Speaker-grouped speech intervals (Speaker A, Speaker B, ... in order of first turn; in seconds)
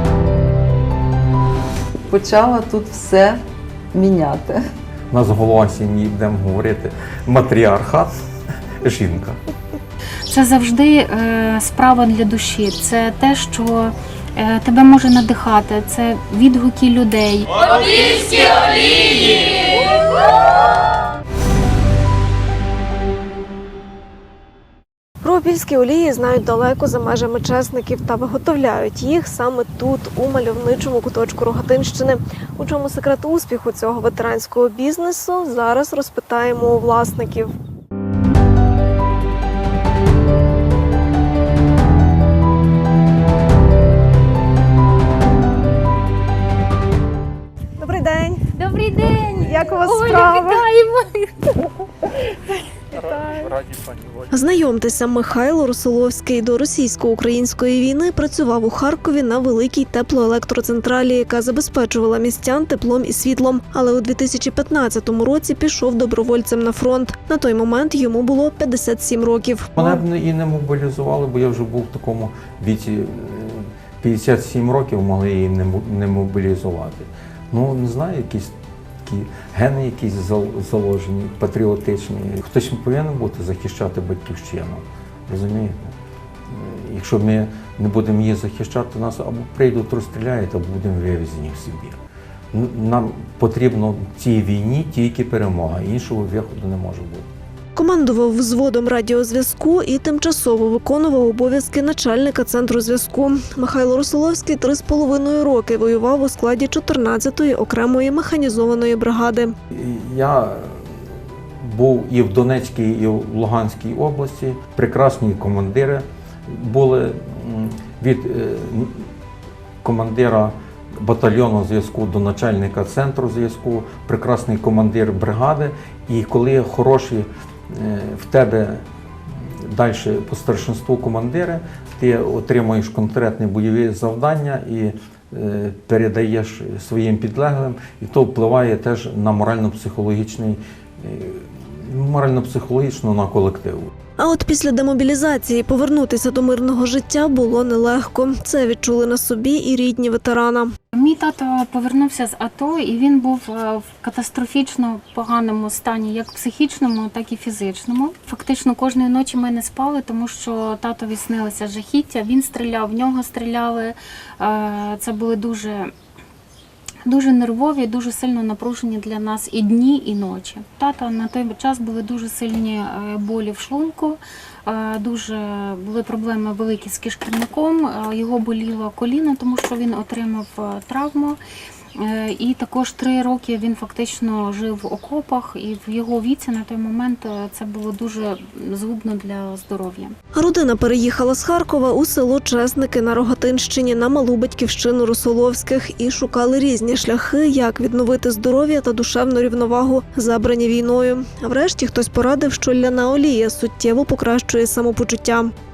Speaker A: 2.1-3.4, 3.9-4.6
Speaker B: 5.1-8.1, 8.8-9.4, 69.8-78.5, 79.1-85.9, 86.5-92.0, 92.5-97.3, 109.7-110.9, 111.6-119.1, 119.8-128.8, 129.6-143.9
Speaker C: 10.3-18.6, 48.5-51.3, 150.9-165.9, 167.1-181.4, 182.0-190.2
Speaker D: 25.2-37.5, 47.8-48.5, 49.1-50.7, 53.2-53.5, 54.3-70.0, 97.8-109.5, 144.2-150.7, 190.3-205.5